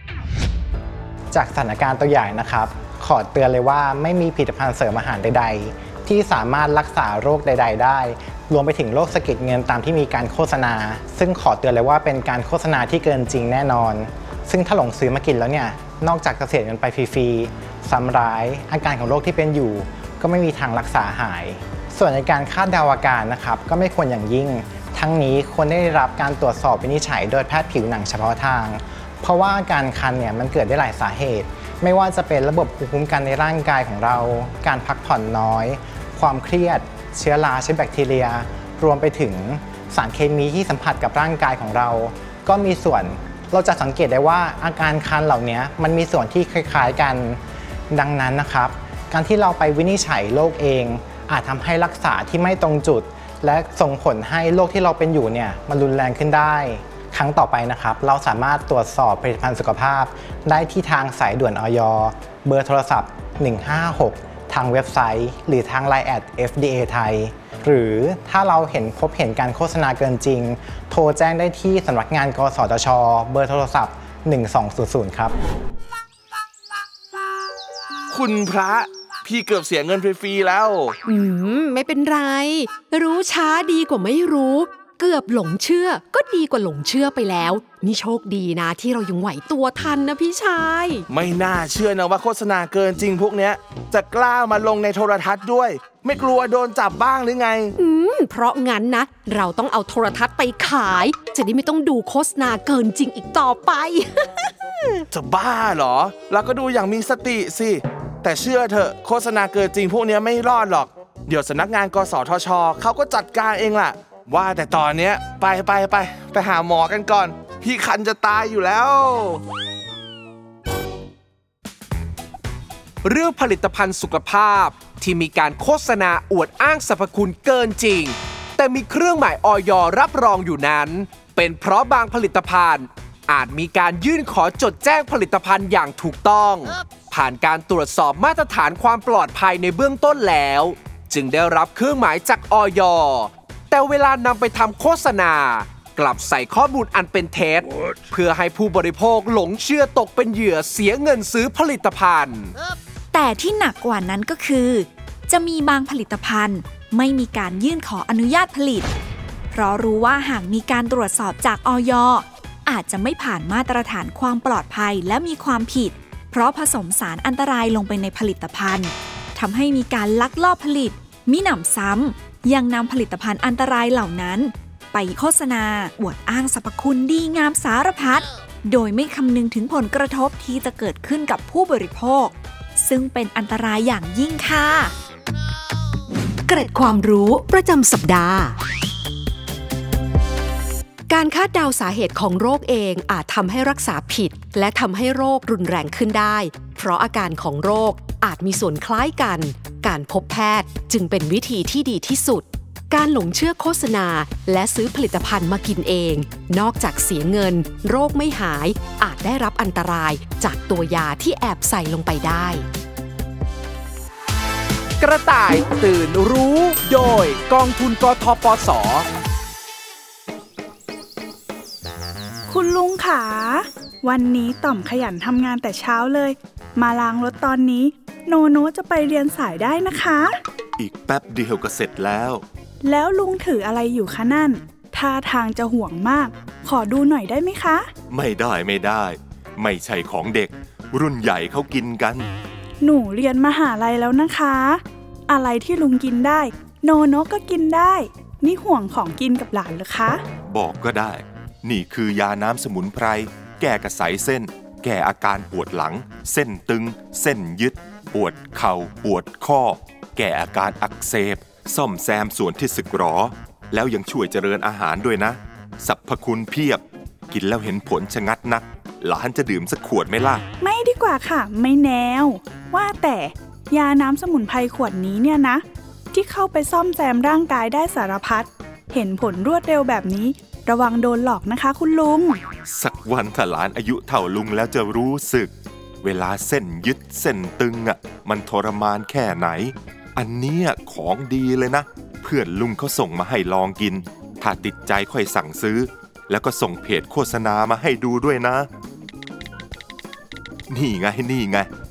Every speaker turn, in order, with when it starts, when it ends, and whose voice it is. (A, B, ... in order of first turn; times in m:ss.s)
0:01.3-0:47.4 A
0:47.9-1:15.4 A
1:18.1-1:21.0 B
1:21.1-1:31.0 C
1:31.1-1:37.7 B
1:37.8-1:45.0 C
1:45.1-1:59.4 B
2:03.0-2:32.5 D
2:33.1-2:38.9 E
2:39.5-3:04.9 E
3:06.5-3:08.6 C
3:11.1-3:32.7 C
3:35.0-3:39.1 D
3:42.5-3:50.4 F
3:50.8-3:52.4 G
3:52.8-3:57.9 F
3:58.1-4:02.3 G
4:02.8-4:10.2 F
4:10.5-4:30.4 G
4:30.6-4:42.4 F
4:42.7-4:45.5 G
4:46.0-4:58.7 G
5:00.7-5:01.7 G